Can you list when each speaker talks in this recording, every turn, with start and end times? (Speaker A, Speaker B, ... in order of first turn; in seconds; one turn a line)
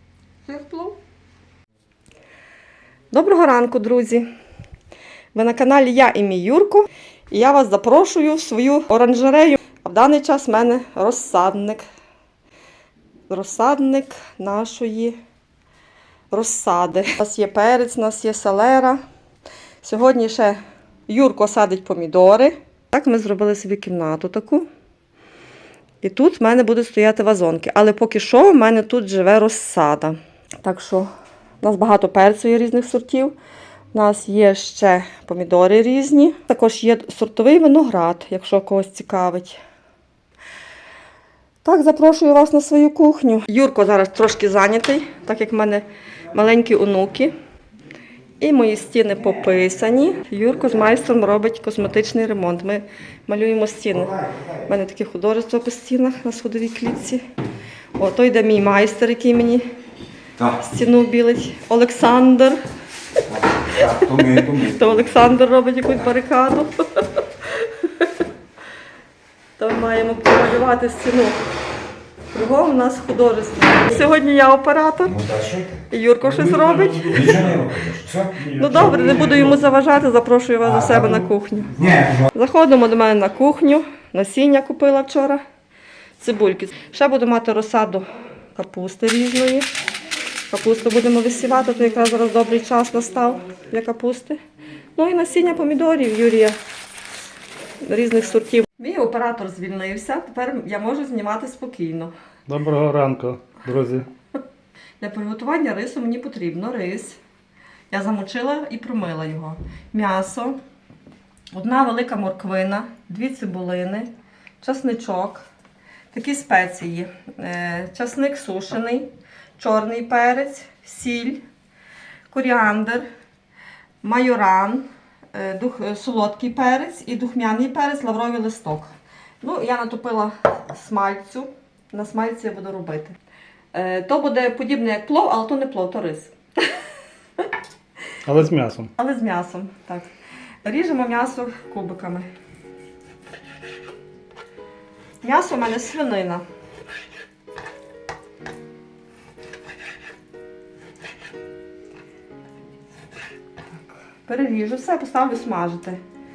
Speaker A: 0.5-1.0
Speaker A: 3.1-4.3
Speaker A: 5.3-11.8
Speaker A: 13.3-15.2
Speaker A: 16.3-19.0
Speaker A: 19.8-24.7
Speaker A: 26.0-31.1
Speaker A: 31.6-33.3
Speaker A: 33.9-39.6
Speaker A: 41.6-47.3
Speaker A: 48.4-57.2
Speaker B: 54.1-54.5
Speaker A: 58.0-59.6
Speaker A: 60.6-62.6
Speaker B: 63.3-65.0
Speaker A: 63.8-67.0
Speaker A: 67.6-68.1
Speaker A: 69.6-71.4
Speaker A: 72.3-75.2
Speaker B: 75.1-75.8
Speaker A: 75.9-77.4
Speaker C: 76.2-77.6
Speaker B: 77.1-78.4
Speaker C: 78.3-79.6
Speaker A: 78.5-81.7
Speaker B: 80.6-81.2
Speaker B: 81.8-82.3
Speaker A: 82.3-85.4
Speaker A: 86.2-89.7
Speaker A: 90.5-94.4
Speaker A: 95.0-96.6
Speaker A: 97.8-102.1
Speaker C: 102.5-104.1
Speaker A: 105.0-107.2
Speaker A: 107.9-110.6
Speaker A: 111.5-114.1
Speaker A: 114.6-115.4
Speaker A: 116.1-121.4
Speaker A: 122.3-123.0
Speaker A: 124.0-133.2
Speaker A: 133.7-136.3
Speaker C: 138.2-138.9
Speaker A: 139.0-140.0
Speaker A: 140.6-142.3
Speaker A: 145.2-146.4
Speaker A: 154.2-156.0